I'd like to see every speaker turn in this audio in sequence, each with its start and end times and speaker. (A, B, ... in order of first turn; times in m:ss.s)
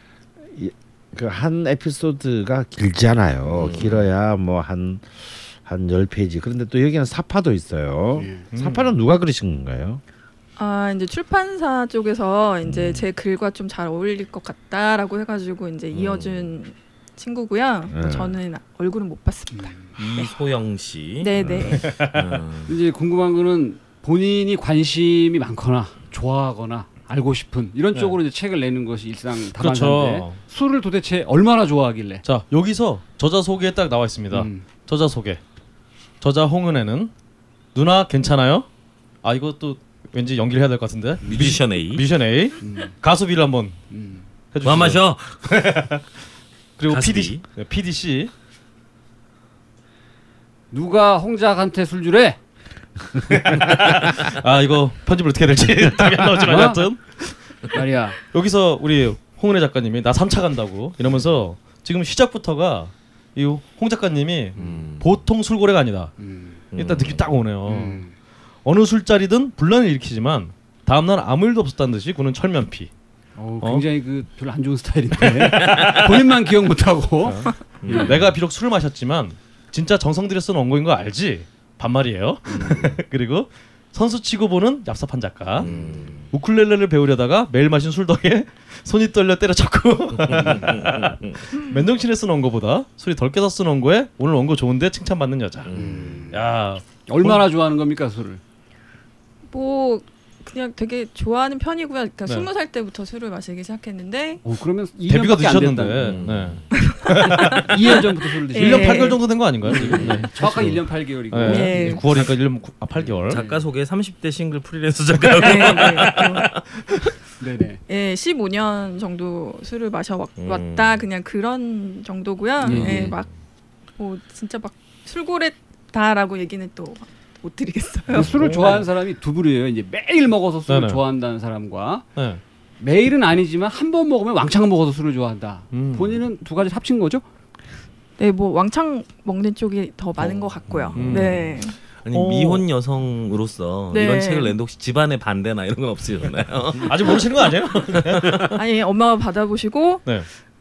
0:00.4-0:10.0 A
0:03.6-0:04.1 B
0:08.2-0:08.5 C
0:08.5-0:08.9 D
0:10.6-0:19.7 E
0:12.7-0:13.0 A
0:15.9-0:16.6 B
0:17.9-0:18.4 A
0:19.5-0:20.0 C
0:20.0-0:21.4 B
0:21.2-0:21.8 E
0:21.4-0:21.8 A
0:21.8-0:22.4 D
0:22.0-0:22.8 B
0:22.7-0:32.2 C
0:29.6-0:30.4 D
0:32.2-0:35.4 D
0:34.3-0:34.7 C
0:36.2-0:37.1 D
0:37.7-0:38.7 D
0:39.2-0:43.8 D
0:41.2-0:42.0 B
0:42.6-0:43.0 C
0:43.9-0:44.3 C
0:44.5-0:46.0 D
0:44.6-0:45.5 B
0:46.8-0:48.3 D
0:46.9-0:47.4 B
0:50.7-0:52.4 C
0:53.3-1:06.2 D
0:56.4-0:57.1 C
0:57.7-0:58.2 C
1:04.6-1:04.9 C
1:04.6-1:05.2 B
1:06.2-1:06.6 C
1:06.7-1:07.2 B
1:06.7-1:08.0 D
1:07.6-1:08.1 C
1:08.6-1:12.9 D
1:13.4-1:18.2 C
1:13.6-1:13.9 D
1:15.4-1:15.8 D
1:15.6-1:16.0 B
1:17.2-1:25.7 D
1:17.8-1:18.3 B
1:22.5-1:22.9 C
1:25.6-1:26.3 B
1:25.6-1:26.3 C
1:26.3-1:37.4 D
1:30.2-1:31.4 B
1:30.4-1:30.7 C
1:35.7-1:36.3 B
1:35.7-1:36.4 C
1:37.0-1:38.4 C
1:39.5-1:44.4 E
1:44.4-1:46.1 C
1:45.1-1:48.0 D
1:46.0-1:46.8 B
1:46.8-1:47.9 E
1:47.6-1:52.4 C
1:48.5-1:49.2 E
1:48.5-1:53.4 D
1:49.8-1:50.8 B
1:51.4-1:52.0 E
1:53.0-1:53.7 C
1:53.3-1:56.5 B
1:55.4-1:56.6 E
1:57.4-1:57.8 C
1:57.9-2:03.3 E
2:00.4-2:01.0 B
2:02.6-2:03.1 C
2:02.7-2:03.3 B
2:04.0-2:08.3 E
2:08.1-2:12.1 C
2:08.1-2:08.9 D
2:10.7-2:11.0 D
2:12.2-2:12.4 D
2:12.8-2:17.2 C
2:15.7-2:16.2 D
2:18.2-2:21.8 E
2:20.2-2:28.5 B
2:21.0-2:21.6 D
2:22.1-2:22.6 D
2:23.9-2:24.5 E
2:26.8-2:28.6 D
2:28.6-2:30.2 E